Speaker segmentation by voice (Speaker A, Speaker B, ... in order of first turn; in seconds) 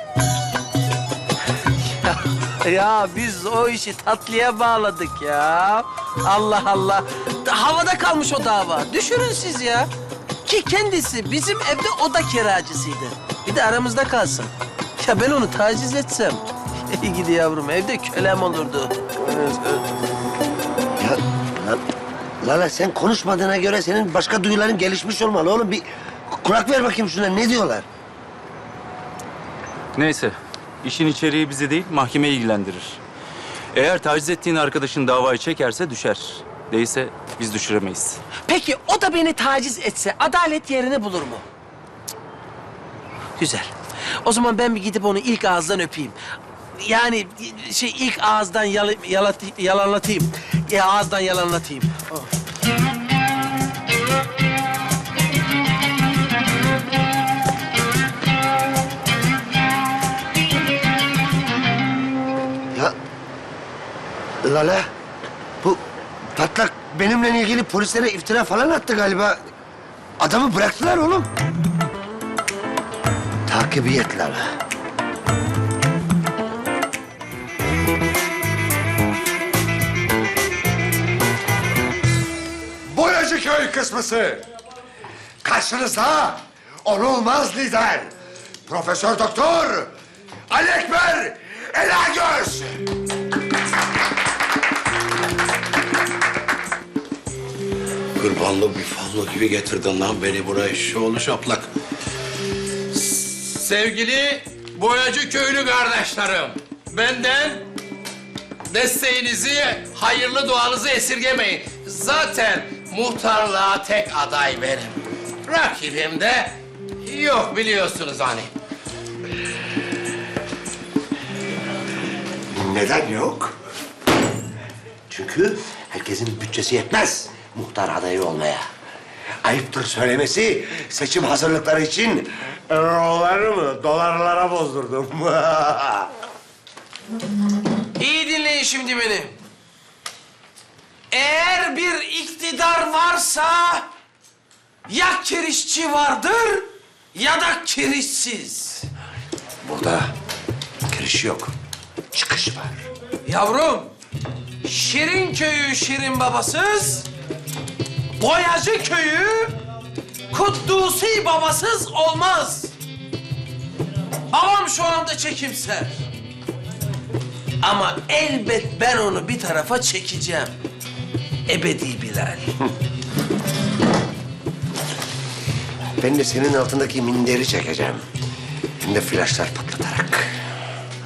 Speaker A: 1.9-9.9, 10.4-19.8, 38.5-41.5, 43.4-43.7, 44.2-46.2, 46.8-52.2, 138.0-139.4, 141.1-143.9, 144.9-148.9, 153.3-153.9, 154.6-157.1, 158.2-159.6, 160.3-162.7, 164.3-166.0, 167.6-170.5, 171.5-172.5
Speaker B: 21.0-21.8, 22.4-27.9, 64.4-64.9, 66.4-69.4, 70.2-71.3, 73.5-74.5, 82.9-84.5, 85.4-88.1, 88.7-89.9, 90.5-92.8, 122.5-123.5, 125.1-128.7, 129.4-136.1, 149.6-150.1, 150.9-151.5, 152.1-152.8, 176.0-178.0, 178.8-180.3
Speaker C: 29.9-33.0, 33.7-38.2
Speaker D: 98.2-101.7
Speaker E: 102.9-107.7, 108.7-118.5